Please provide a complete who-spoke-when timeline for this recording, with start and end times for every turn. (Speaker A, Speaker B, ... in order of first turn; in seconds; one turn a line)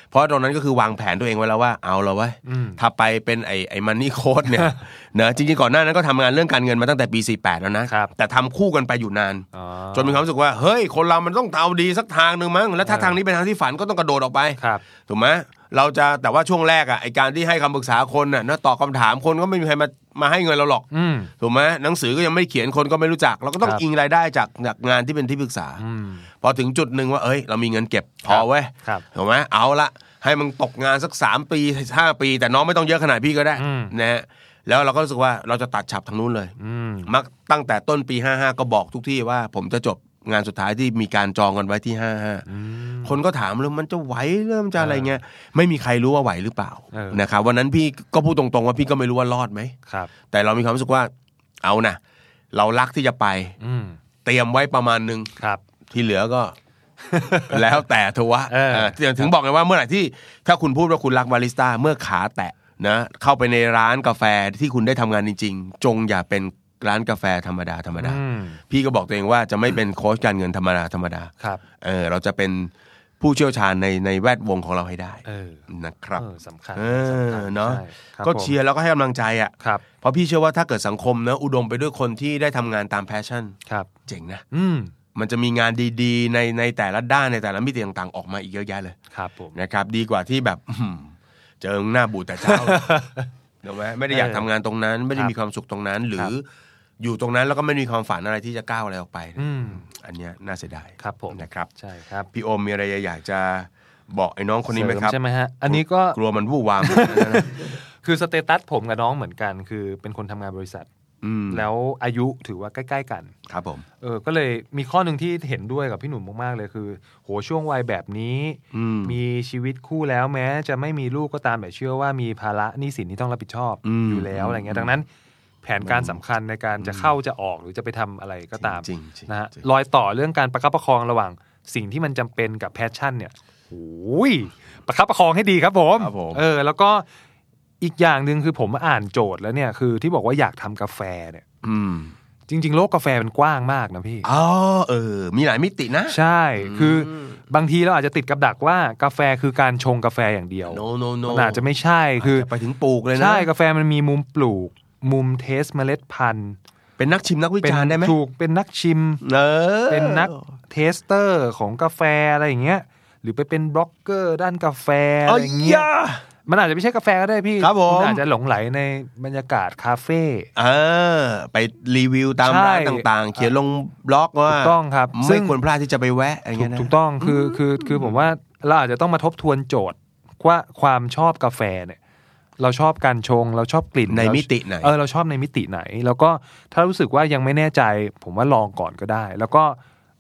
Speaker A: 0.1-20.9
Speaker B: 2.5-2.8
Speaker B: 9.5-10.2
Speaker B: 12.8-13.2
Speaker B: 14.6-14.8
Speaker B: 20.9-21.3
Speaker A: 21.4-25.8
Speaker B: 25.8-26.3
Speaker A: 26.4-36.5
Speaker B: 28.3-29.1
Speaker B: 33.6-33.9
Speaker B: 36.6-37.1
Speaker A: 37.1-42.5
Speaker B: 42.5-43.2
Speaker A: 43.0-49.7
Speaker B: 44.8-45.2
Speaker B: 46.9-47.2
Speaker B: 49.9-50.1
Speaker A: 50.3-51.1
Speaker A: 51.6-52.0
Speaker A: 52.5-53.5
Speaker B: 53.6-54.0
Speaker A: 54.2-55.3
Speaker B: 55.4-55.6
Speaker A: 55.9-56.5
Speaker B: 57.1-57.6
Speaker A: 57.5-76.2
Speaker B: 58.5-59.1
Speaker B: 68.0-68.6
Speaker B: 75.3-75.6
Speaker B: 76.2-78.6
Speaker A: 76.8-83.5
Speaker B: 79.6-79.8
Speaker A: 84.1-84.4
Speaker B: 84.5-84.9
Speaker A: 85.2-89.0
Speaker B: 89.1-89.6
Speaker A: 89.5-93.0
Speaker B: 92.4-93.2
Speaker A: 93.6-96.5
Speaker B: 94.1-94.5
Speaker A: 97.0-101.7
Speaker B: 99.4-99.9
Speaker B: 101.0-102.3
Speaker A: 102.3-107.7
Speaker B: 104.7-106.2
Speaker B: 106.8-110.9
Speaker A: 111.2-111.7
Speaker B: 111.5-113.3
Speaker A: 113.5-113.8
Speaker B: 114.0-125.1
Speaker A: 118.7-119.2
Speaker A: 123.8-124.9
Speaker B: 125.6-137.1
Speaker A: 125.8-126.2
Speaker A: 126.8-127.2
Speaker A: 128.6-129.7
Speaker A: 136.0-136.4
Speaker B: 137.8-141.4
Speaker A: 141.6-142.1
Speaker B: 142.5-144.3
Speaker A: 144.2-147.3
Speaker B: 146.1-152.5
Speaker A: 150.7-151.7
Speaker A: 152.2-153.5
Speaker B: 153.1-156.6
Speaker A: 157.0-158.2
Speaker B: 157.6-159.2
Speaker A: 159.2-160.4
Speaker B: 159.9-165.9
Speaker A: 165.3-166.2
Speaker B: 166.5-170.5
Speaker A: 167.6-168.2
Speaker A: 170.6-178.2
Speaker B: 172.4-173.5
Speaker B: 174.5-175.6
Speaker B: 176.6-182.0
Speaker B: 182.6-189.8
Speaker A: 184.1-184.9